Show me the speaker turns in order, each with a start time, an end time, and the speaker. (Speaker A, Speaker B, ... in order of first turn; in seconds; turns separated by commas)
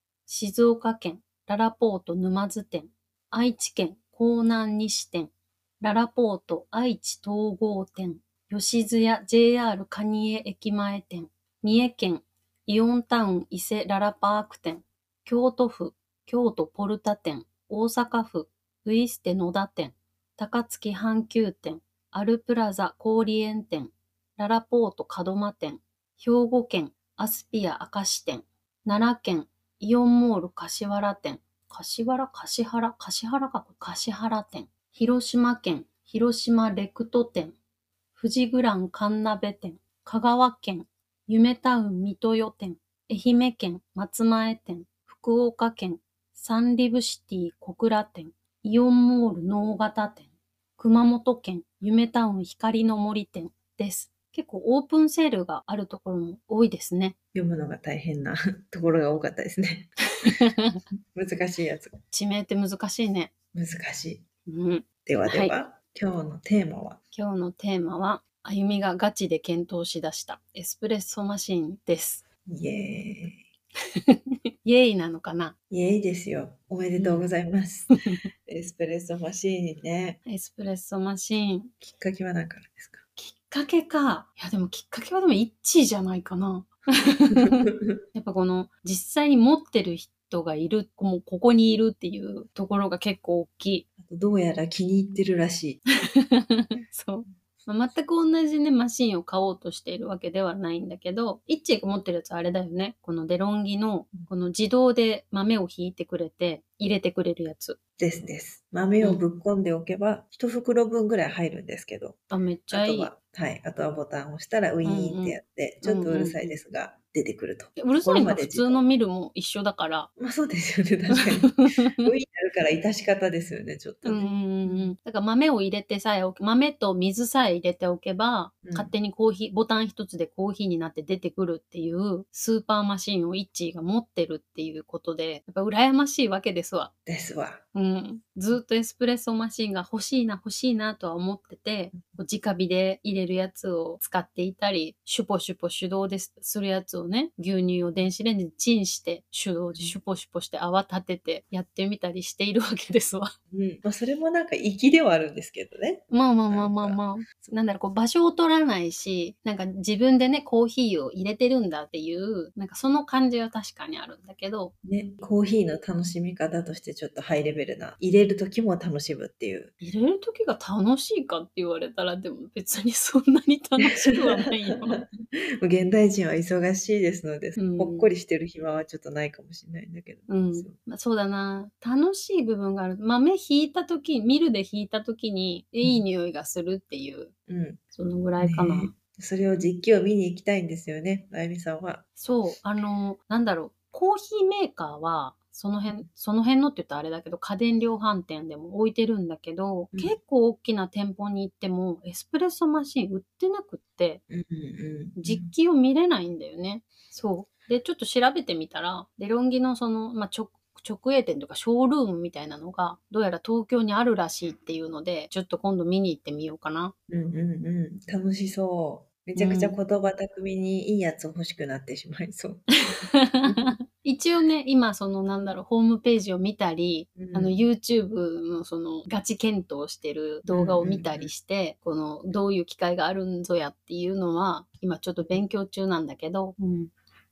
Speaker A: 0.3-37.5, Speaker A: 38.2-57.1, Speaker B: 57.3-60.3, Speaker A: 60.2-60.8, Speaker B: 61.1-62.0, Speaker A: 62.1-63.3, Speaker B: 63.5-64.2, Speaker A: 64.5-65.5, Speaker B: 65.0-67.0, Speaker A: 67.1-72.2, Speaker B: 72.5-73.4, Speaker A: 73.9-75.5, Speaker B: 75.7-77.9, Speaker A: 77.0-77.2, Speaker B: 78.5-80.2, Speaker A: 80.2-81.7, Speaker B: 81.8-83.0, Speaker A: 83.2-93.8, Speaker B: 87.3-87.9, Speaker B: 94.0-95.8, Speaker A: 96.1-107.8, Speaker B: 108.0-112.2, Speaker A: 112.3-113.1, Speaker B: 112.7-118.8, Speaker A: 114.8-116.6, Speaker A: 117.8-120.1, Speaker B: 120.2-124.9, Speaker A: 121.1-122.1, Speaker A: 124.0-136.9, Speaker B: 128.6-128.9, Speaker B: 137.1-137.6, Speaker A: 137.7-153.3, Speaker B: 149.7-150.0, Speaker B: 153.5-157.6, Speaker A: 156.1-164.7, Speaker B: 164.8-169.7, Speaker A: 169.8-175.0, Speaker B: 174.2-175.1, Speaker B: 175.6-180.8, Speaker A: 177.6-178.1, Speaker A: 180.3-187.3, Speaker B: 187.5-187.8, Speaker A: 187.9-188.9, Speaker B: 188.4-192.1, Speaker A: 192.2-204.2, Speaker B: 204.3-205.5, Speaker A: 205.2-216.9, Speaker B: 217.1-223.8, Speaker A: 219.3-219.8, Speaker A: 223.0-236.9, Speaker B: 227.2-227.6, Speaker B: 230.5-231.3